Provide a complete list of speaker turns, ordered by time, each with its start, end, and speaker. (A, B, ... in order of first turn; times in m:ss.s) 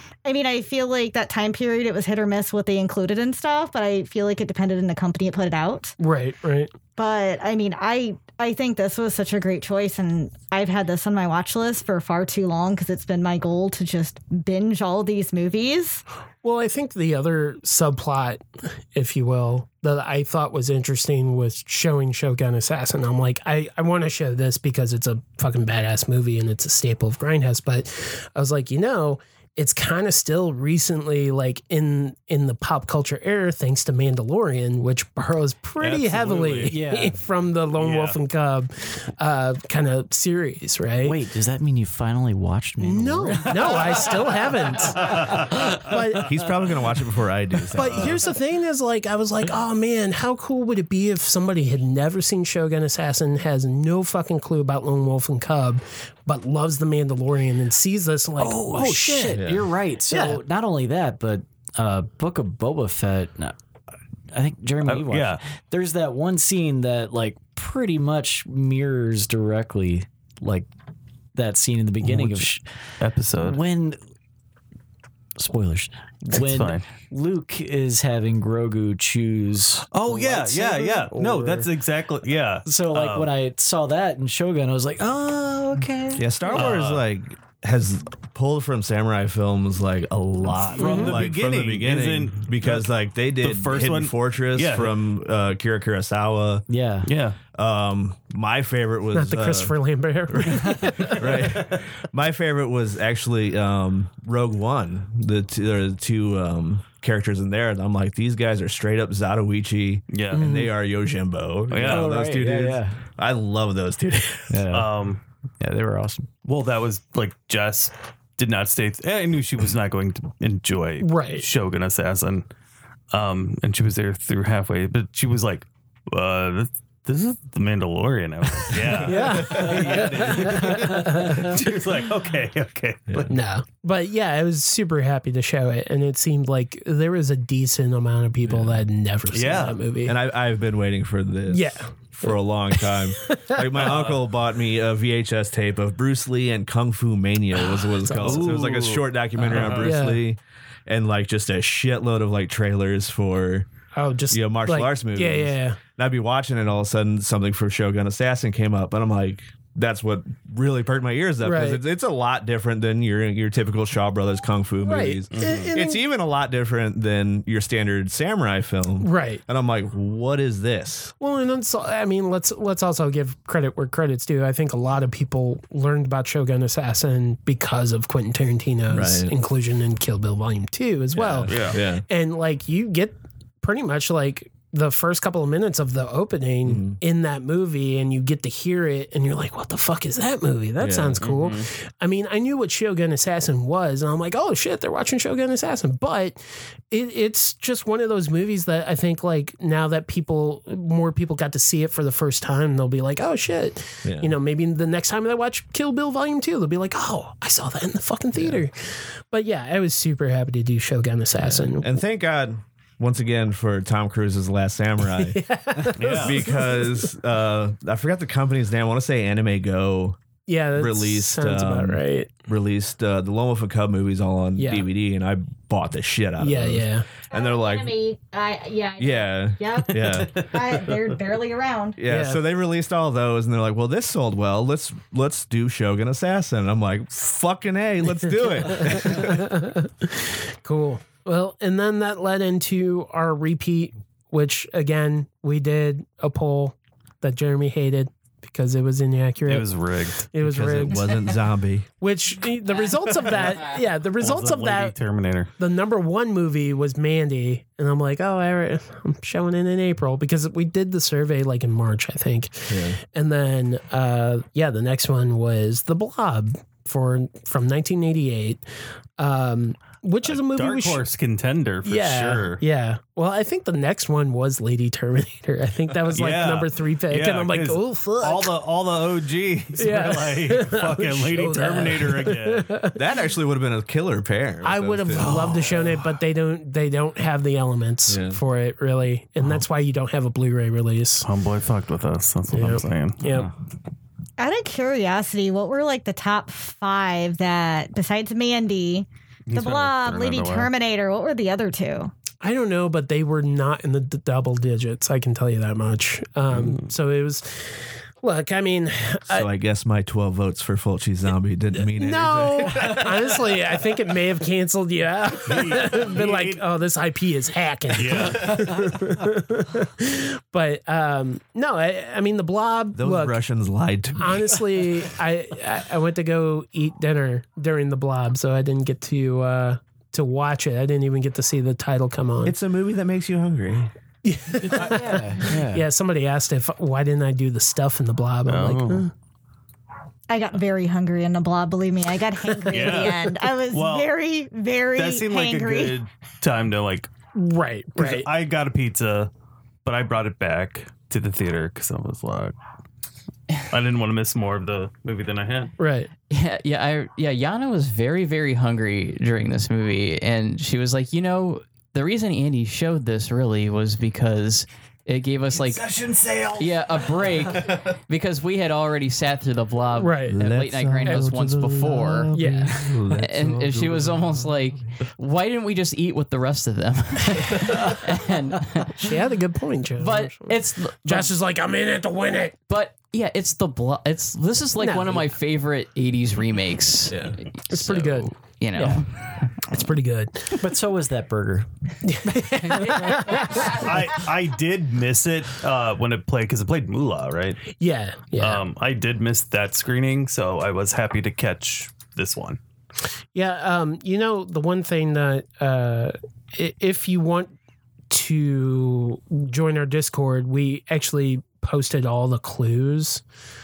0:00.2-0:06.0 A
0:06.0-0:06.7 B
0:07.0-0:16.0 A
0:16.4-0:18.4 B
0:18.9-0:41.2 B
0:35.8-0:36.7 C
0:36.7-0:37.1 D
0:37.8-0:38.2 C
0:41.0-0:44.3 D
0:42.8-0:46.3 B
0:44.9-0:46.0 C
0:46.1-0:48.3 E
0:47.7-0:59.4 B
0:58.4-1:03.6 D
0:59.3-0:59.7 E
1:00.1-1:00.4 B
1:04.3-1:10.7 D
1:04.8-1:05.4 C
1:11.3-1:12.6 D
1:12.0-1:12.5 C
1:13.0-1:13.6 C
1:13.4-1:14.0 D
1:15.4-1:21.7 D
1:16.3-1:16.8 C
1:19.9-1:23.3 C
1:22.6-1:26.6 D
1:26.2-1:36.6 E
1:26.5-1:27.0 C
1:30.6-1:35.0 C
1:30.8-1:31.2 B
1:36.7-1:37.1 D
1:37.0-1:37.4 C
1:37.5-1:39.7 E
1:39.1-1:41.6 B
1:40.3-1:54.6 E
1:50.1-1:50.5 C
1:50.3-1:50.7 B
1:51.7-1:52.1 C
1:51.8-1:53.0 D
1:54.5-1:54.9 D
1:54.7-1:55.2 C
1:55.6-1:56.3 D
1:56.4-2:02.5 C
2:01.0-2:01.4 B
2:03.1-2:13.3 C
2:08.9-2:10.9 E
2:09.0-2:11.4 B
2:13.3-2:20.1 B
2:19.3-2:19.8 C
2:20.0-2:33.7 E
2:21.5-2:23.9 B
2:23.8-2:24.2 C
2:27.5-2:28.7 B
2:28.2-2:30.0 C
2:29.5-2:30.2 B
2:33.9-2:35.8 B
2:34.3-2:51.1 E
2:41.4-2:41.8 B
2:44.8-2:46.0 B
2:45.3-2:45.7 C
2:49.0-2:49.4 B
2:51.1-3:31.9 B
2:58.9-2:59.3 E
3:01.2-3:02.0 E
3:01.4-3:01.8 C
3:06.6-3:07.0 E
3:10.8-3:11.2 E
3:11.2-3:11.7 C
3:24.0-3:24.3 E
3:31.4-3:40.2 E
3:35.0-3:37.1 B
3:36.0-3:36.4 C
3:40.5-3:42.3 B
3:40.8-3:48.0 E
3:44.6-3:44.8 B
3:46.4-3:47.1 B
3:47.3-3:52.0 A
3:49.0-3:50.4 E
3:50.0-3:50.6 C
3:52.0-3:59.5 E
3:52.0-3:52.4 B
3:58.2-4:09.7 B
4:09.4-4:10.3 C
4:10.3-4:11.3 B
4:10.4-4:11.9 E
4:12.0-4:14.9 B
4:14.2-4:15.5 C
4:15.6-4:28.6 B
4:22.7-4:23.0 E
4:29.2-4:31.0 B
4:30.2-4:32.6 C
4:31.8-4:38.5 B
4:36.1-4:42.7 C
4:39.8-4:43.0 B
4:42.9-4:45.8 E
4:44.6-4:51.3 B
4:45.1-4:46.0 C
4:48.1-4:48.4 E
4:51.2-4:53.5 C
4:52.5-4:53.5 B
4:54.4-5:02.1 A
4:59.5-5:00.7 C
5:02.4-5:09.5 B
5:06.5-5:06.9 C
5:09.3-5:13.6 E
5:11.8-5:23.4 B
5:15.4-5:16.6 C
5:17.9-5:18.9 C
5:23.0-5:24.9 E
5:24.2-5:32.6 B
5:32.4-5:33.9 E
5:34.2-5:39.1 B
5:34.6-5:35.8 D
5:38.5-5:39.1 C
5:40.3-5:46.0 A
5:42.7-5:43.1 B
5:42.7-5:44.1 C
5:45.0-5:47.1 C
5:47.3-5:48.3 B
5:48.0-5:49.3 C
5:49.8-5:52.6 C
5:53.7-5:55.7 C
5:55.8-5:56.1 B
5:56.3-6:05.9 F
6:05.6-6:06.9 C
6:06.6-6:12.4 F
6:10.0-6:10.4 B
6:10.3-6:14.7 E
6:12.3-6:13.1 B
6:13.1-6:19.2 F
6:19.0-6:22.6 B
6:20.0-6:21.3 F
6:22.7-6:29.8 F
6:24.8-6:25.3 B
6:27.1-6:27.4 E
6:27.7-6:29.0 B
6:29.6-6:30.6 B
6:30.6-6:31.7 D
6:32.0-6:33.8 B
6:33.5-6:37.6 C
6:37.8-6:38.6 B
6:38.4-6:42.6 C
6:43.3-6:47.5 B
6:48.1-6:53.2 B